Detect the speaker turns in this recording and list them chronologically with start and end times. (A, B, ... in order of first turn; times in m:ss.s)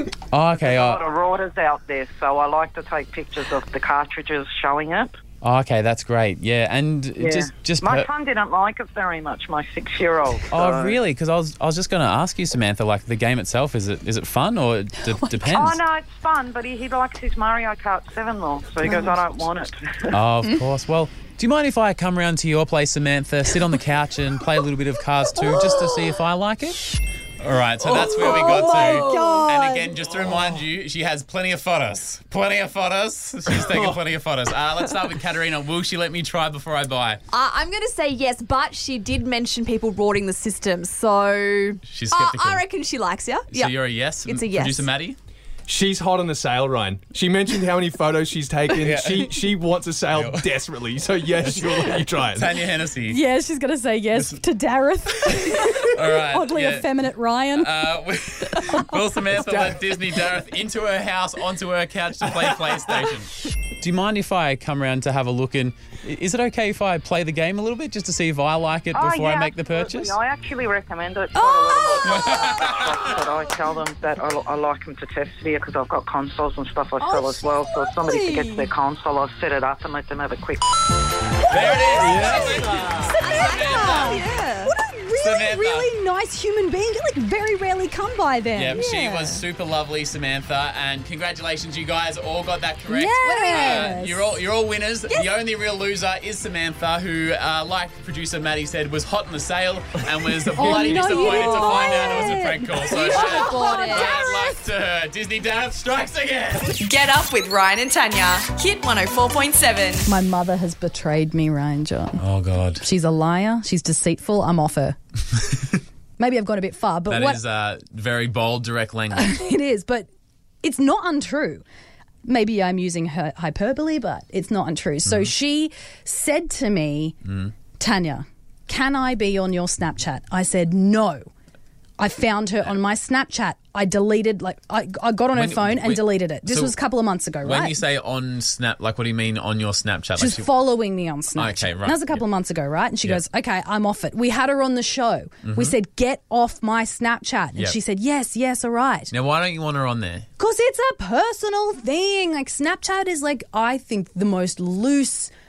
0:00.3-0:01.0 A
0:00.5-0:05.2 B
0:05.4-0:08.1 A
0:07.2-0:11.0 B
0:10.5-0:15.8 A
0:15.4-0:20.2 B
0:18.8-0:19.1 C
0:20.1-0:26.8 A
0:27.4-0:37.2 A
0:28.0-0:29.9 D
0:28.2-0:29.4 C
0:37.3-0:44.9 D
0:41.8-0:42.6 A
0:43.5-0:45.2 A
0:45.7-0:52.5 E
0:48.8-0:49.5 A
0:50.1-0:50.6 A
0:51.4-0:53.2 A
0:53.1-0:57.7 C
0:55.8-0:56.9 A
0:57.5-1:10.2 A
0:58.5-0:59.0 C
0:59.5-0:59.7 E
1:08.9-1:20.6 B
1:11.3-1:12.4 C
1:17.0-1:18.6 C
1:21.5-1:24.2 A
1:21.6-1:28.8 C
1:21.6-1:24.8 D
1:25.2-1:25.9 A
1:28.5-1:46.8 A
1:28.7-1:29.4 D
1:32.9-1:34.3 C
1:33.2-1:33.9 D
1:40.5-1:44.5 C
1:41.0-1:42.0 D
1:42.9-1:44.1 D
1:46.8-1:50.1 F
1:50.0-1:52.2 C
1:52.2-1:52.8 A
1:52.8-1:55.0 C
1:56.2-1:57.4 C
1:57.1-1:59.3 A
1:59.1-2:00.1 C
2:00.6-2:01.6 C
2:02.2-2:07.2 C
2:05.0-2:05.3 A
2:07.2-2:07.5 A
2:07.8-2:11.2 C
2:12.0-2:17.8 C
2:15.3-2:16.8 A
2:17.4-2:20.5 A
2:20.2-2:29.1 C
2:21.4-2:22.2 A
2:25.4-2:25.8 A
2:29.1-2:30.3 A
2:30.4-2:35.3 C